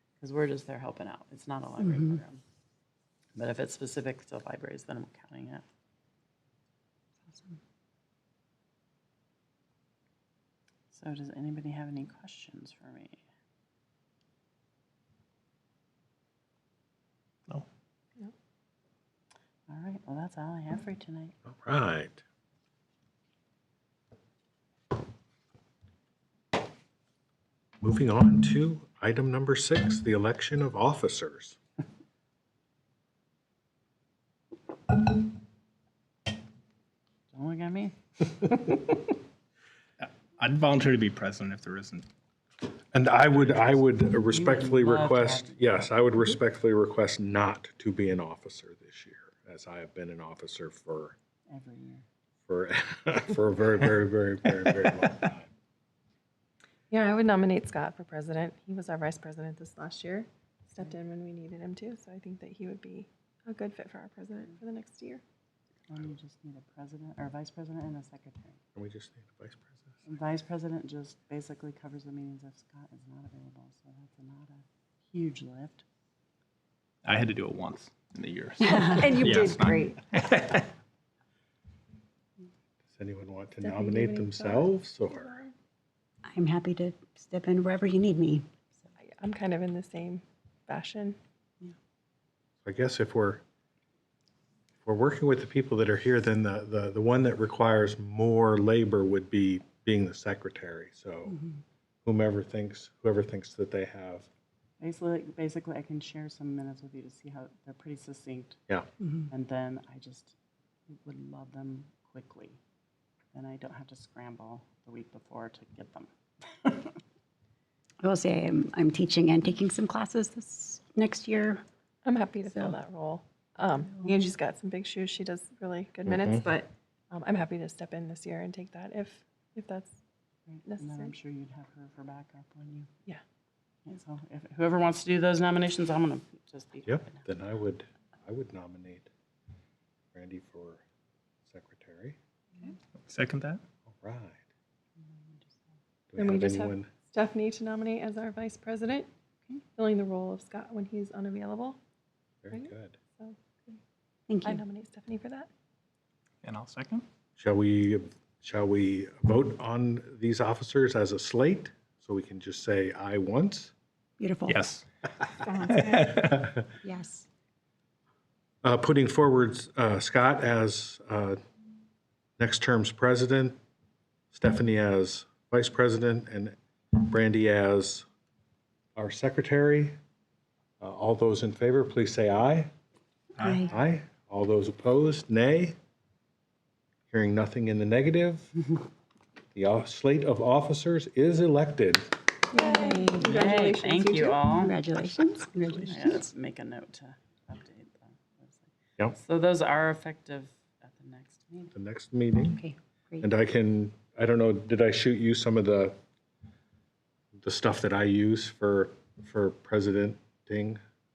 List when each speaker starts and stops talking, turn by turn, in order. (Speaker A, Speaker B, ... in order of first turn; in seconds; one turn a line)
Speaker A: 0.2-2.4
Speaker B: 1.8-2.2
Speaker A: 3.4-5.7
Speaker B: 7.3-7.6
Speaker A: 10.9-13.2
Speaker A: 19.7-21.3
Speaker C: 21.5-22.2
Speaker C: 27.8-31.6
Speaker A: 37.3-39.0
Speaker D: 40.0-42.0
Speaker C: 42.9-51.1
Speaker A: 44.3-45.9
Speaker A: 51.5-52.0
Speaker C: 52.5-55.5
Speaker E: 56.9-65.2
Speaker A: 65.9-68.6
Speaker C: 68.7-69.9
Speaker A: 70.0-75.8
Speaker D: 77.0-80.7
Speaker B: 78.6-79.5
Speaker E: 78.7-79.9
Speaker C: 82.9-85.3
Speaker E: 83.6-85.5
Speaker B: 86.2-88.5
Speaker E: 89.0-91.2
Speaker C: 92.6-93.4
Speaker C: 94.8-101.4
Speaker C: 102.0-104.3
Speaker A: 104.8-108.6
Speaker A: 109.3-110.3
Speaker A: 111.0-112.6
Speaker A: 113.3-116.1
Speaker A: 116.6-116.9
Speaker B: 118.0-121.6
Speaker E: 122.0-130.0
Speaker C: 126.0-126.5
Speaker A: 130.5-132.9
Speaker E: 130.7-131.1
Speaker A: 133.8-137.2
Speaker C: 136.8-139.1
Speaker C: 140.1-140.8
Speaker C: 141.5-142.2
Speaker D: 143.0-143.6
Speaker C: 143.9-144.4
Speaker A: 145.1-145.5
Speaker C: 146.1-146.9
Speaker E: 146.2-149.1
Speaker E: 149.8-151.8
Speaker C: 152.4-153.0
Speaker E: 152.5-153.8
Speaker B: 154.3-154.6
Speaker E: 154.4-155.5
Speaker D: 156.4-157.0
Speaker C: 157.4-163.7
Speaker B: 164.2-164.6
Speaker D: 164.5-164.8
Speaker D: 165.4-166.4
Speaker B: 165.5-166.0
Speaker C: 166.2-166.6
Speaker B: 166.8-167.2
Speaker C: 168.6-171.4
Speaker C: 172.4-173.6
Speaker C: 174.3-178.0
Speaker C: 178.9-179.9
Speaker C: 180.8-182.7
Speaker D: 183.4-183.7
Speaker B: 183.4-183.7
Speaker C: 183.7-185.8
Speaker C: 187.1-188.5
Speaker C: 189.5-192.1
Speaker B: 192.5-193.4
Speaker E: 192.5-194.4
Speaker A: 193.2-194.8
Speaker B: 194.6-196.3
Speaker A: 195.8-201.7
Speaker C: 201.7-202.6
Speaker B: 202.4-203.3
Speaker C: 203.2-205.9
Speaker C: 207.4-210.8